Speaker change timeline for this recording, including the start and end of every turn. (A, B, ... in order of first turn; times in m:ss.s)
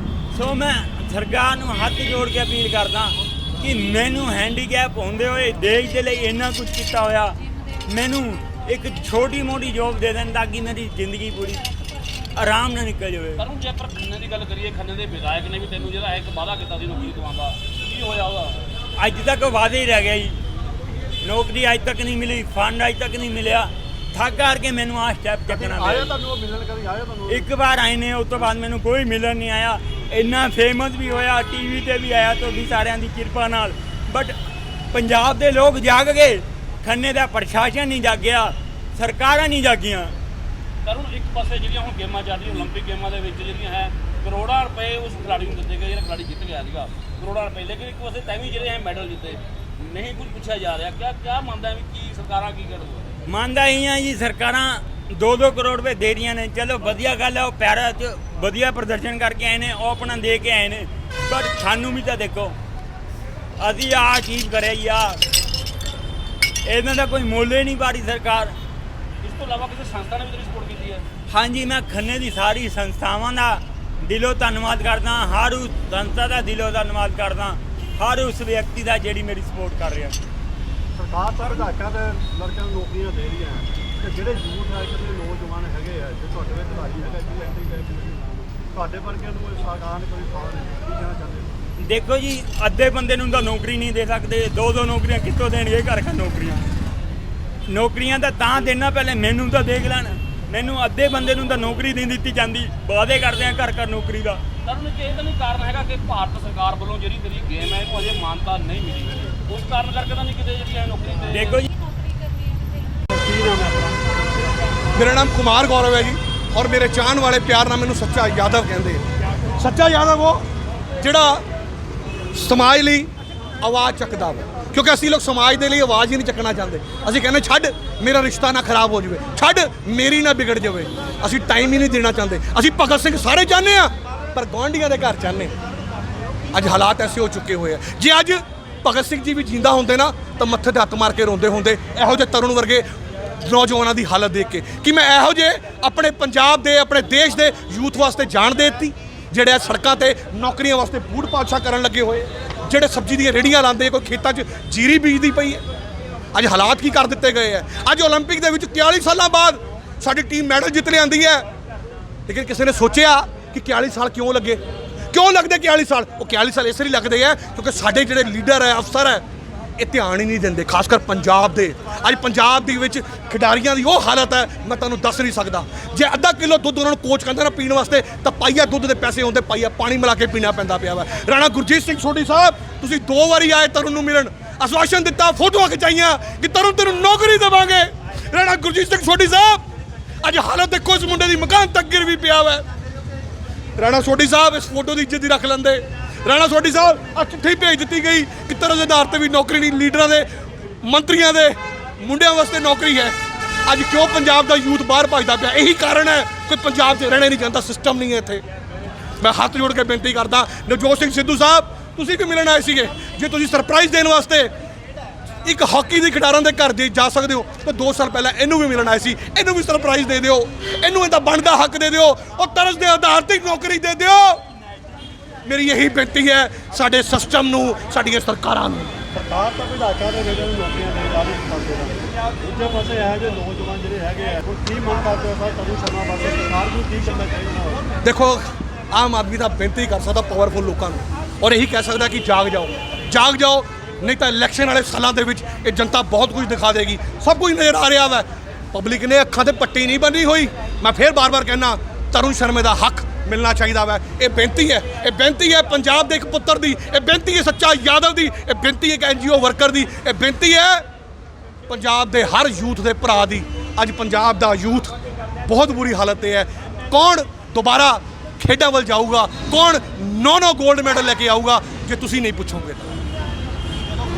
0:00.3-0:11.6 A
0:12.3-0:13.4 A
0:13.4-0:18.6 B
0:19.0-0:20.4 A
0:21.2-0:26.1 A
0:25.5-0:27.5 C
0:27.3-0:34.4 A
0:34.9-0:40.1 A
0:40.8-0:53.2 B
0:53.2-1:02.5 A
1:03.6-1:05.2 A
1:06.6-1:08.5 A
1:09.2-1:11.0 B
1:11.3-1:20.2 A
1:20.9-1:31.6 C
1:31.8-1:36.7 A
1:37.7-1:44.4 A
1:44.6-1:51.6 B
1:51.3-1:51.7 A
1:53.1-1:54.3 C
1:55.0-1:59.0 D
1:59.6-2:00.4 D
2:01.0-2:01.4 D
2:02.3-2:03.1 D
2:03.6-2:15.5 D
2:16.5-2:22.8 D
2:23.4-2:35.6 D
2:36.3-2:41.4 D
2:42.3-2:44.6 D
2:45.1-2:49.2 D
2:49.8-3:09.6 D
3:10.2-3:12.6 D
3:13.8-3:20.3 D
3:20.8-3:23.1 D
3:23.7-3:28.4 D
3:29.2-3:34.5 D
3:35.4-3:44.4 D
3:45.4-3:49.0 D
3:49.1-3:57.9 C
3:58.0-4:20.8 D
4:21.7-4:24.9 D
4:25.5-4:32.9 D